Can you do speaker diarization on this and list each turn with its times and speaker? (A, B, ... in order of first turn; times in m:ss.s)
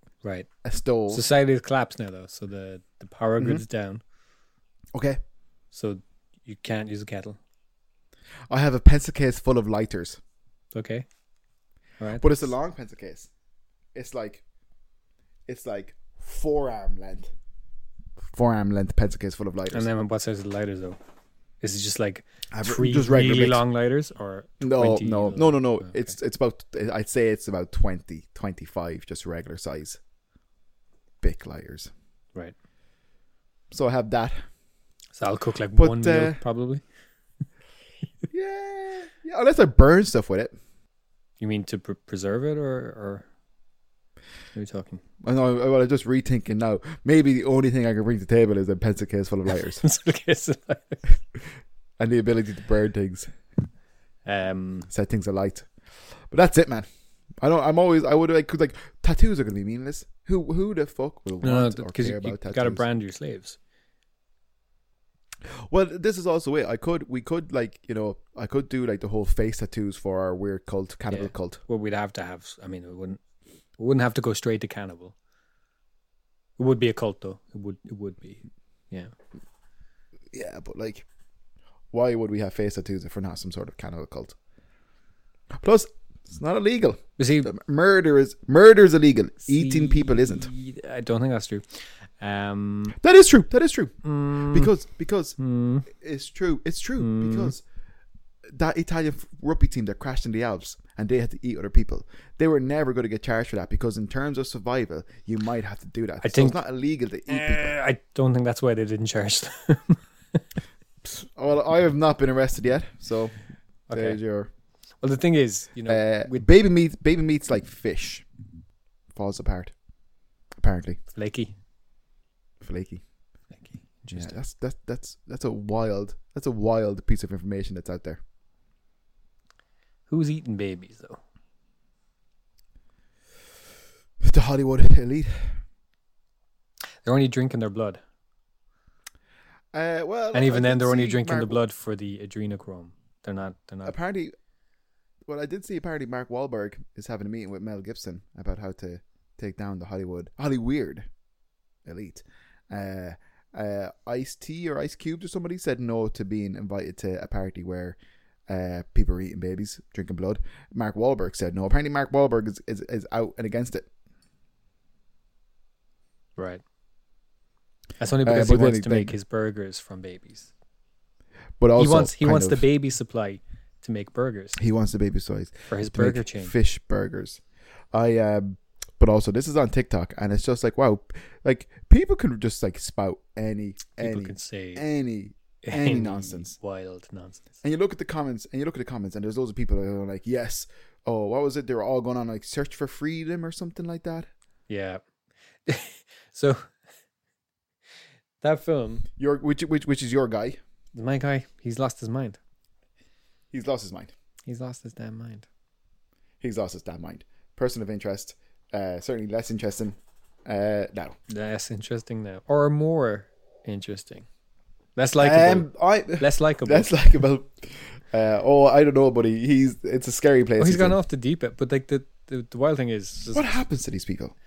0:00.2-0:00.5 A
0:00.6-0:01.2 B
0:01.1-0:04.0 A
0:04.9-0:05.2 B
0:05.7-0:07.4 A
0:08.5-0:10.2 B
0:10.7-0:11.1 A
0:12.0-0:12.6 A
0:12.2-0:13.3 B
0:13.9-0:14.4 B
0:15.5-0:17.3 B
0:18.3-0:19.9 B
0:19.7-0:21.0 A
0:21.6-0:26.1 A
0:22.5-0:23.6 B
0:24.6-0:30.0 B
0:31.2-0:31.9 B
0:33.7-0:34.4 B
0:35.2-0:36.8 A
0:35.8-0:36.4 B
0:38.3-0:40.6 B
0:41.4-0:43.2 A
0:44.6-0:45.0 A
0:45.2-0:49.8 B
0:49.5-0:51.0 A
0:52.0-0:53.3 B
0:54.2-0:54.9 A
0:54.9-0:56.9 B
0:57.4-1:02.8 B
1:01.4-1:03.6 A
1:05.4-1:11.6 B
1:11.1-1:13.2 A
1:13.8-1:15.1 A
1:16.6-1:19.1 A
1:20.3-1:21.1 B
1:21.9-1:24.4 B
1:25.6-1:30.5 B
1:27.2-1:27.5 A
1:29.4-1:33.0 A
1:33.0-1:35.4 B
1:34.0-1:34.7 A
1:35.4-1:35.9 A
1:35.9-1:37.6 B
1:37.0-1:37.6 A
1:38.5-1:47.7 B
1:46.2-1:46.6 A
1:47.3-1:50.4 A
1:51.0-1:53.4 B
1:53.9-1:54.2 A
1:53.9-1:54.5 B
1:55.0-1:56.4 A
1:55.9-1:58.2 B
1:59.1-1:59.7 B
2:00.6-2:01.0 B
2:01.1-2:01.6 A
2:02.6-2:03.0 B
2:03.5-2:04.4 A
2:04.1-2:08.2 B
2:10.1-2:11.2 A
2:14.2-2:15.6 B
2:17.0-2:18.0 A
2:19.7-2:21.6 B
2:20.3-2:24.0 A
2:23.8-2:24.3 B
2:25.2-2:31.1 B
2:31.8-2:38.0 B
2:38.5-2:43.9 B
2:46.4-2:46.6 A
2:48.0-2:50.5 A
2:48.2-2:49.1 B
2:51.6-2:52.6 B
2:51.8-2:54.6 A
2:54.6-2:57.4 B
2:55.7-2:56.6 A
2:57.9-3:06.6 B
3:04.0-3:04.8 A
3:05.6-3:07.5 A
3:07.6-3:14.3 B
3:14.7-3:15.0 A
3:15.6-3:16.7 A
3:18.4-3:19.1 A
3:19.2-3:20.6 B
3:20.9-3:22.4 A
3:23.5-3:24.1 B
3:24.4-3:25.5 A
3:26.4-3:31.1 B
3:31.3-3:34.2 A
3:35.0-3:37.0 A
3:35.2-3:41.0 B
3:40.6-3:43.6 A
3:43.2-3:44.3 B